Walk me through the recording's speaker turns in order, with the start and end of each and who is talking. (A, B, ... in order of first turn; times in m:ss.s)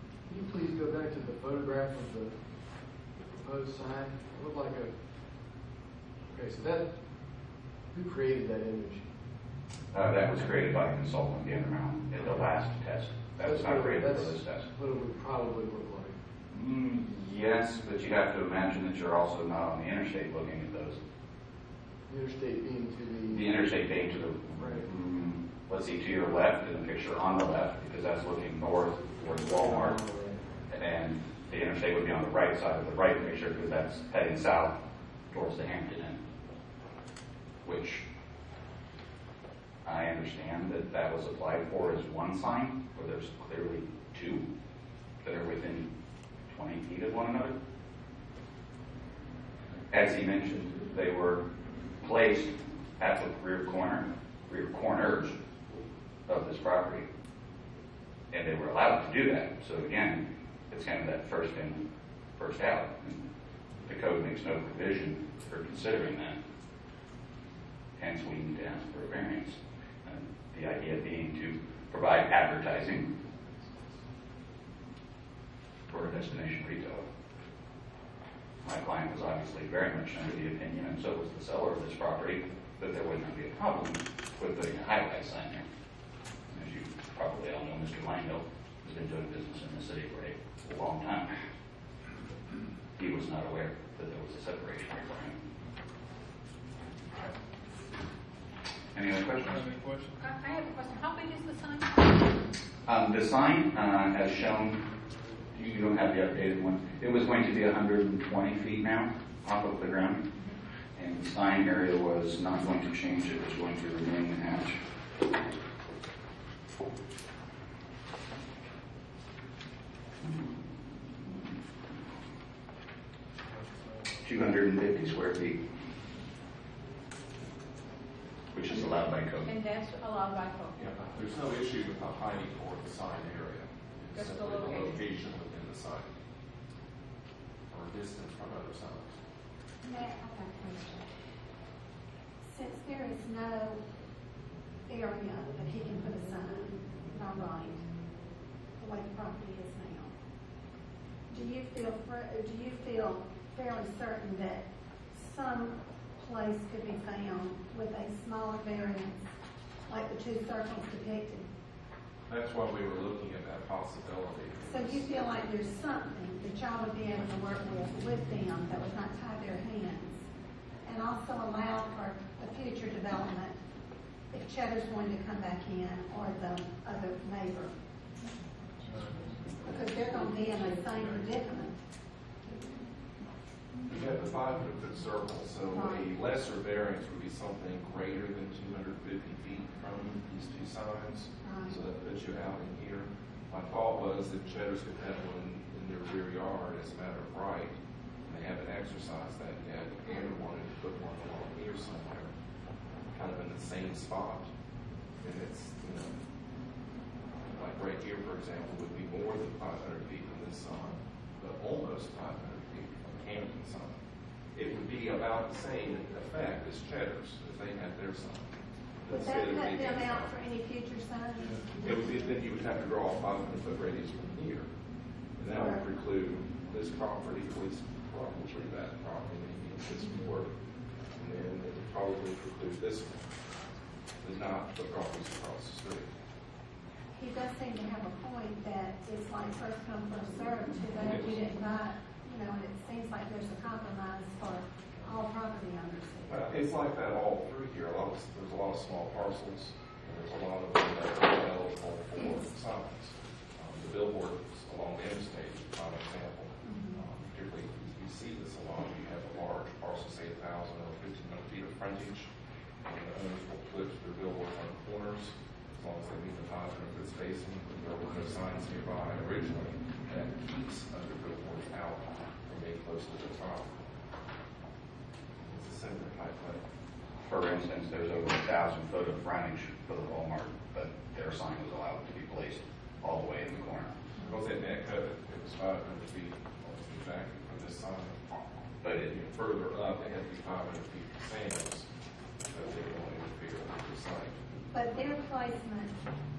0:00.2-0:05.6 A
0:06.2-0:09.1 A
0:09.9-0:14.7 B
0:13.4-0:16.2 A
0:16.5-0:21.0 B
0:22.1-0:23.5 A
0:23.3-0:30.0 B
0:24.5-0:24.9 A
0:29.2-0:30.5 A
0:30.7-0:36.2 B
0:37.6-0:38.0 B
0:39.8-0:44.5 B
0:45.2-0:45.9 B
0:46.4-0:47.6 B
0:49.9-0:51.4 B
0:52.0-0:55.4 B
0:56.3-0:57.1 B
0:58.3-1:01.8 B
1:02.4-1:03.2 B
1:03.8-1:06.4 B
1:08.0-1:13.1 B
1:15.9-1:17.0 B
1:18.6-1:25.6 B
1:26.5-1:31.3 B
1:33.0-1:35.4 B
1:38.9-1:39.6 B
1:39.4-1:40.2 C
1:40.2-1:41.9 D
1:42.8-1:44.8 B
1:45.5-1:50.2 B
1:50.9-1:54.8 B
2:00.2-2:01.6 B
2:03.5-2:04.2 C
2:04.2-2:05.6 B
2:08.5-2:09.5 B
2:08.9-2:10.8 D
2:10.8-2:16.1 E
2:14.1-2:15.0 D
2:17.7-2:19.2 E
2:19.8-2:21.1 F
2:22.4-2:23.8 F
2:24.9-2:27.9 F
2:28.8-2:30.1 F
2:31.3-2:39.3 F
2:39.9-2:41.5 F
2:42.3-2:45.1 E
2:44.6-2:50.2 F
2:50.8-2:53.6 F
2:54.3-2:57.7 F
2:58.8-2:59.5 C
2:59.6-3:01.8 F
3:00.9-3:01.2 C
3:03.8-3:22.3 E
3:05.7-3:06.1 F
3:11.4-3:11.8 F
3:23.1-3:24.5 E
3:25.1-3:26.2 E
3:27.5-3:40.3 E
3:39.1-3:42.2 F
3:41.4-3:41.7 C
3:41.8-3:44.7 E
3:45.2-3:50.5 E
3:45.5-3:45.8 F
3:51.0-3:53.4 E
3:54.2-3:56.1 E
3:57.1-4:06.4 F
4:01.0-4:01.4 E
4:06.3-4:22.3 E
4:16.6-4:17.0 F
4:22.8-4:33.8 E
4:35.4-4:36.6 E
4:37.3-4:44.0 B
4:44.2-4:48.2 E
4:48.8-4:49.1 B
4:49.0-4:51.9 E
4:52.4-4:54.4 E
4:54.7-4:56.0 F